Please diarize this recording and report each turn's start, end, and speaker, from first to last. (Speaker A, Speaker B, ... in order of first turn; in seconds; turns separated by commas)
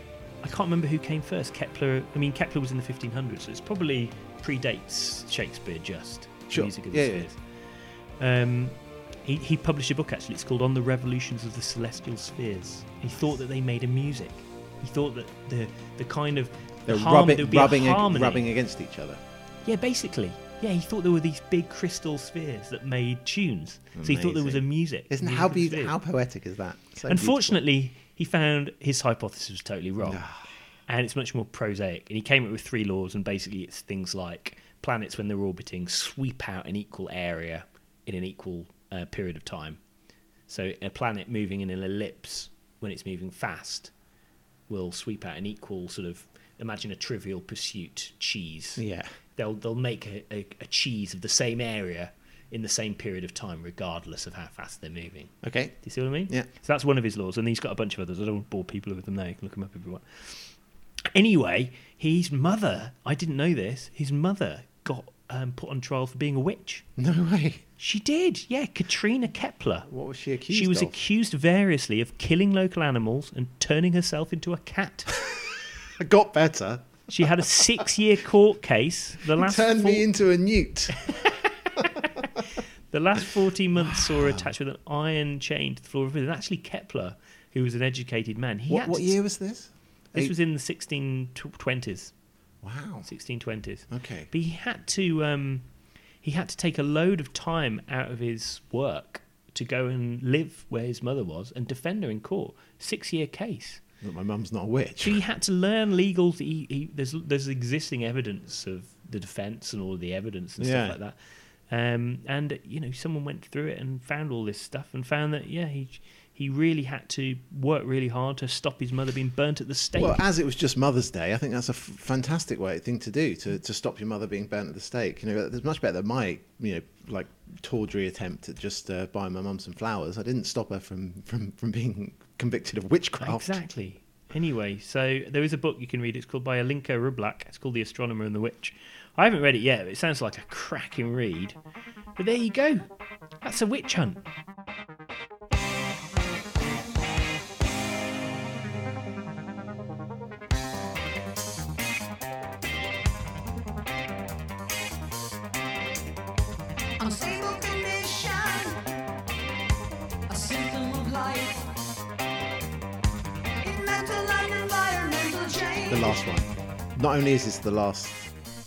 Speaker A: 0.4-7.4, Speaker B: 6.5-7.3, Speaker A: 8.2-18.5, Speaker B: 16.9-19.2, Speaker A: 19.6-25.9, Speaker B: 23.9-27.6, Speaker A: 27.0-30.2, Speaker B: 30.0-30.5, Speaker A: 30.9-39.8, Speaker A: 40.5-43.9, Speaker A: 44.7-48.8, Speaker B: 48.8-49.1, Speaker A: 49.4-60.5, Speaker B: 55.4-56.5, Speaker A: 61.1-66.8, Speaker B: 67.0-67.6, Speaker A: 67.8-69.9, Speaker B: 69.9-71.0, Speaker A: 70.5-75.2, Speaker B: 76.0-77.9, Speaker A: 77.1-80.0, Speaker B: 79.2-82.2, Speaker A: 81.0-89.2, Speaker B: 83.8-84.5, Speaker B: 88.7-90.3, Speaker A: 90.1-92.1, Speaker B: 92.6-93.1, Speaker A: 93.0-95.7, Speaker B: 93.9-94.3, Speaker A: 96.2-103.8, Speaker B: 104.0-105.2, Speaker A: 105.0-111.2, Speaker B: 110.6-111.0, Speaker A: 111.7-120.2, Speaker B: 120.0-133.6, Speaker A: 133.2-141.6, Speaker A: 142.2-142.8, Speaker A: 143.4-144.2, Speaker C: 157.0-158.9, Speaker C: 160.3-161.7, Speaker C: 163.6-166.2, Speaker B: 165.9-168.3